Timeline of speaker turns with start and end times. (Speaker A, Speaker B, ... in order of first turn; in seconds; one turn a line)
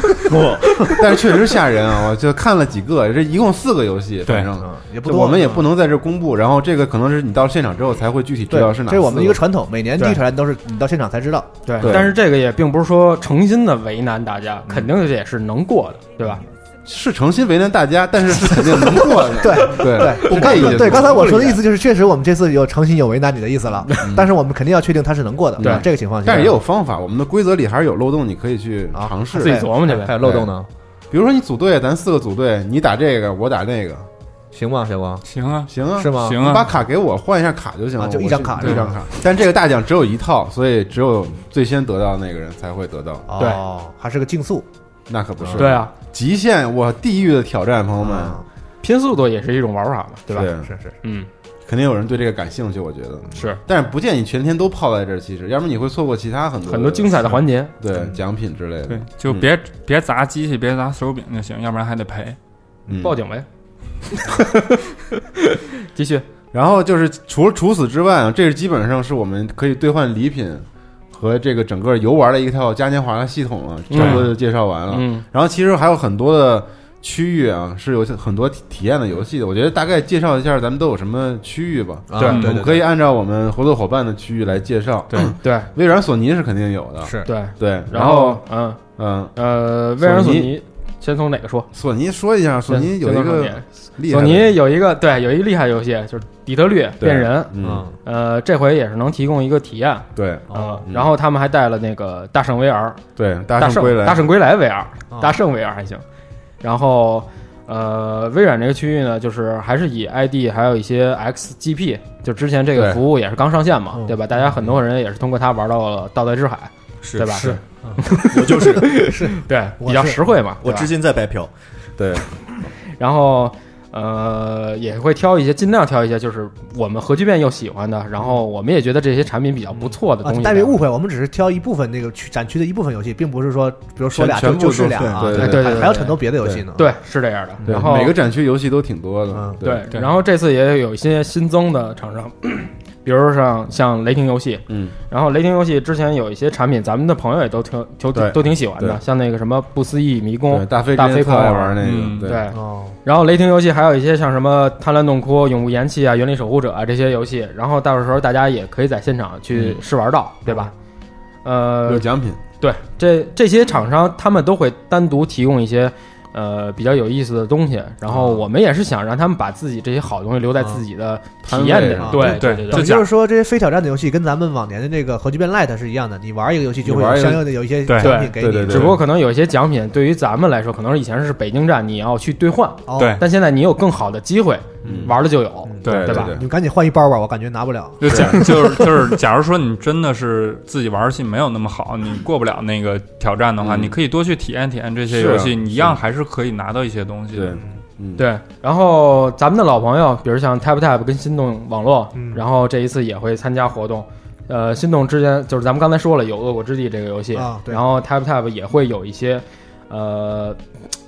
Speaker A: 0.2-0.8
Speaker B: 0.9-9.4
Speaker C: 4.3-4.5
Speaker D: 4.6-5.7
Speaker D: 8.5-11.9
Speaker E: 10.0-10.2
Speaker E: 11.7-16.5
Speaker B: 11.8-12.2
Speaker B: 16.9-21.6
Speaker D: 18.6-26.6
Speaker A: 20.2-20.6
Speaker B: 24.0-24.3
Speaker B: 25.6-30.5
Speaker D: 28.9-30.7
Speaker E: 29.4-30.1
Speaker B: 31.1-34.1
Speaker D: 34.5-35.2
Speaker C: 35.3-36.7
Speaker B: 35.7-43.3
Speaker D: 36.0-36.4
Speaker D: 38.0-39.0
Speaker D: 43.3-44.7
Speaker E: 43.4-43.6
Speaker B: 45.1-48.4
Speaker D: 45.4-45.7
Speaker E: 45.6-45.9
Speaker D: 48.0-48.4
Speaker E: 48.8-51.3
Speaker B: 50.3-50.7
Speaker D: 50.6-50.9
Speaker B: 51.7-59.5
Speaker E: 53.3-53.6
Speaker E: 56.7-57.7
Speaker C: 58.9-62.4
Speaker B: 62.9-63.2
Speaker E: 63.0-63.5
Speaker E: 64.1-64.8
Speaker E: 65.4-66.2
Speaker B: 66.5-88.4
Speaker E: 73.9-74.3
Speaker C: 73.9-74.3
Speaker E: 74.9-75.2
Speaker D: 82.1-82.8
Speaker E: 82.2-82.5
Speaker C: 82.2-82.5
Speaker E: 85.4-85.7
Speaker D: 87.0-87.3
Speaker E: 87.3-88.8
Speaker B: 89.0-89.3
Speaker E: 89.4-91.7
Speaker B: 90.0-90.5
Speaker B: 91.7-94.6
Speaker E: 92.7-103.0
Speaker B: 97.0-97.8
Speaker D: 97.6-97.9
Speaker B: 100.2-101.1
Speaker D: 100.5-100.8
Speaker B: 103.2-104.3
Speaker E: 103.6-106.0
Speaker D: 105.1-105.4
Speaker E: 106.6-120.9
Speaker B: 112.7-113.0
Speaker D: 113.9-114.5
Speaker A: 117.0-117.5
Speaker D: 117.3-118.2
Speaker A: 118.3-118.9
Speaker D: 118.9-120.3
Speaker A: 120.6-121.5
Speaker B: 122.0-122.2
Speaker E: 123.0-130.8
Speaker D: 130.2-136.9
Speaker B: 134.1-136.6
Speaker E: 135.2-136.2
Speaker E: 136.7-138.2
Speaker B: 137.7-139.9
Speaker D: 139.3-139.6
Speaker E: 139.6-160.7
Speaker B: 144.7-144.9
Speaker B: 148.1-149.0
Speaker B: 150.5-152.4
Speaker C: 151.8-152.4
Speaker D: 152.5-153.0
Speaker B: 159.5-159.8
Speaker E: 161.4-162.1
Speaker B: 161.8-162.4
Speaker E: 162.6-173.1
Speaker D: 168.1-168.4
Speaker B: 171.4-172.4
Speaker D: 172.0-178.9
Speaker C: 172.2-172.9
Speaker B: 176.8-177.5
Speaker C: 177.9-178.1
Speaker E: 178.0-186.4
Speaker B: 178.4-179.0
Speaker D: 182.9-183.2
Speaker C: 183.0-183.2
Speaker D: 184.8-185.1
Speaker B: 184.8-185.2
Speaker D: 185.7-188.2
Speaker C: 185.8-186.1
Speaker B: 185.8-186.4
Speaker C: 188.0-197.6
Speaker B: 188.0-188.5
Speaker B: 193.6-194.0
Speaker B: 195.1-196.0
Speaker B: 197.3-198.3
Speaker E: 198.2-210.6
Speaker D: 202.2-202.4
Speaker D: 207.3-207.8